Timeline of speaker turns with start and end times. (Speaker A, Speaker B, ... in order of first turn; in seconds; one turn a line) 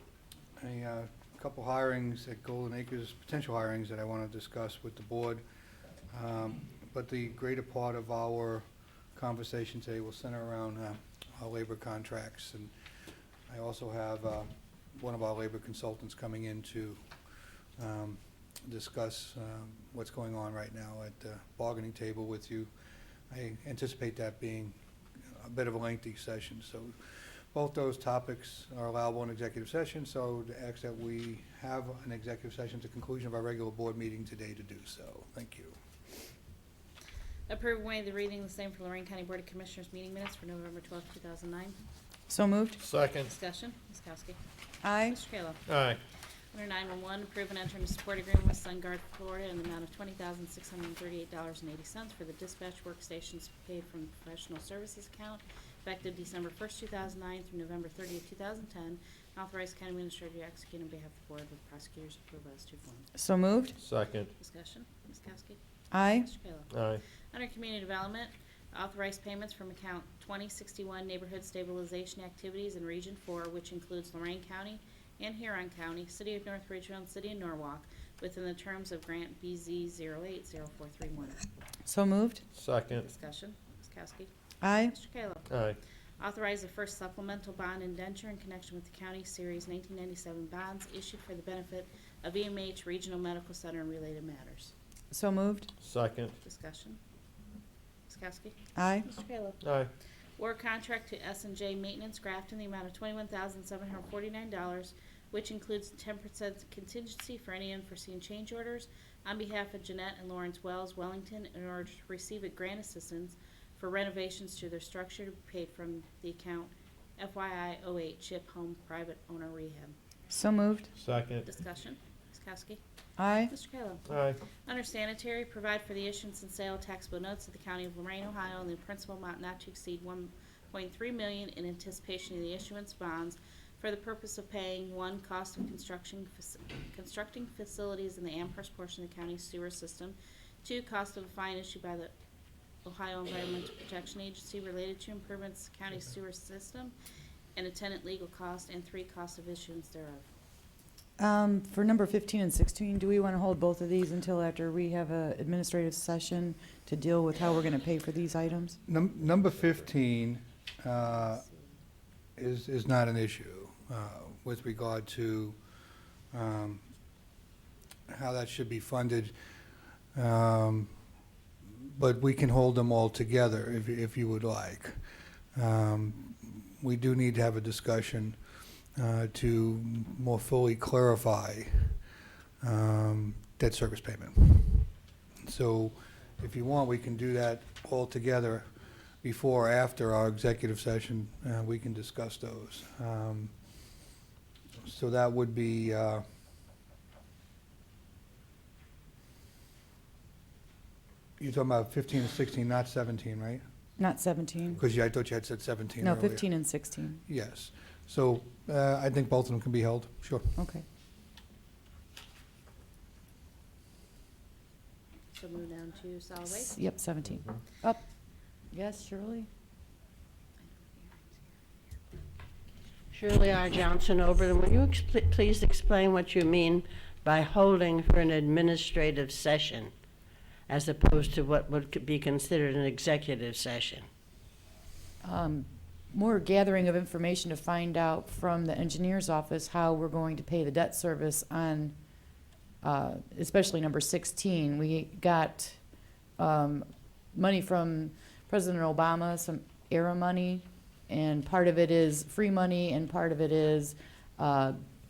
Speaker A: 0.6-5.4
Speaker A: 6.1-12.7
Speaker A: 13.5-17.0
Speaker A: 17.8-22.7
Speaker A: 23.3-24.8
Speaker A: 25.3-26.9
Speaker A: 27.5-35.8
Speaker B: 37.5-41.8
Speaker C: 42.3-42.8
Speaker D: 42.8-43.3
Speaker B: 43.2-44.4
Speaker C: 44.8-45.2
Speaker B: 45.0-45.6
Speaker D: 45.7-46.0
Speaker B: 46.5-63.1
Speaker C: 63.1-63.7
Speaker D: 63.8-64.3
Speaker B: 64.4-65.6
Speaker C: 65.9-66.3
Speaker B: 66.1-81.4
Speaker D: 66.7-67.0
Speaker C: 81.8-82.4
Speaker D: 82.5-83.1
Speaker B: 83.0-84.3
Speaker C: 84.6-85.0
Speaker B: 84.9-85.5
Speaker D: 85.5-85.8
Speaker B: 86.2-94.7
Speaker C: 95.1-95.7
Speaker D: 95.8-96.3
Speaker B: 96.4-97.0
Speaker B: 98.1-99.6
Speaker C: 98.8-99.1
Speaker D: 99.6-99.9
Speaker B: 100.4-120.0
Speaker C: 120.3-120.9
Speaker D: 121.0-121.5
Speaker B: 121.5-122.8
Speaker C: 123.2-123.5
Speaker B: 123.5-124.1
Speaker D: 124.1-124.4
Speaker B: 124.6-142.1
Speaker B: 142.8-146.9
Speaker B: 147.6-150.3
Speaker C: 151.2-158.8
Speaker A: 158.9-161.4
Speaker B: 161.4-161.7
Speaker A: 162.4-165.6
Speaker A: 166.3-166.8
Speaker A: 168.1-169.3
Speaker A: 170.2-170.9
Speaker A: 171.8-175.0
Speaker A: 175.6-178.4
Speaker A: 179.0-182.0
Speaker A: 182.6-184.9
Speaker A: 185.4-188.7
Speaker A: 189.2-193.5
Speaker A: 194.8-196.2
Speaker A: 201.4-203.6
Speaker C: 204.0-204.8
Speaker A: 204.8-206.5
Speaker C: 206.0-207.2
Speaker A: 207.3-210.6
Speaker C: 210.6-210.8
Speaker B: 215.3-216.8
Speaker C: 216.5-218.0
Speaker C: 218.7-219.5
Speaker B: 220.6-221.5
Speaker E: 223.1-229.9
Speaker E: 230.7-234.1
Speaker C: 235.2-241.9
Speaker C: 242.8-245.8
Speaker C: 246.4-254.8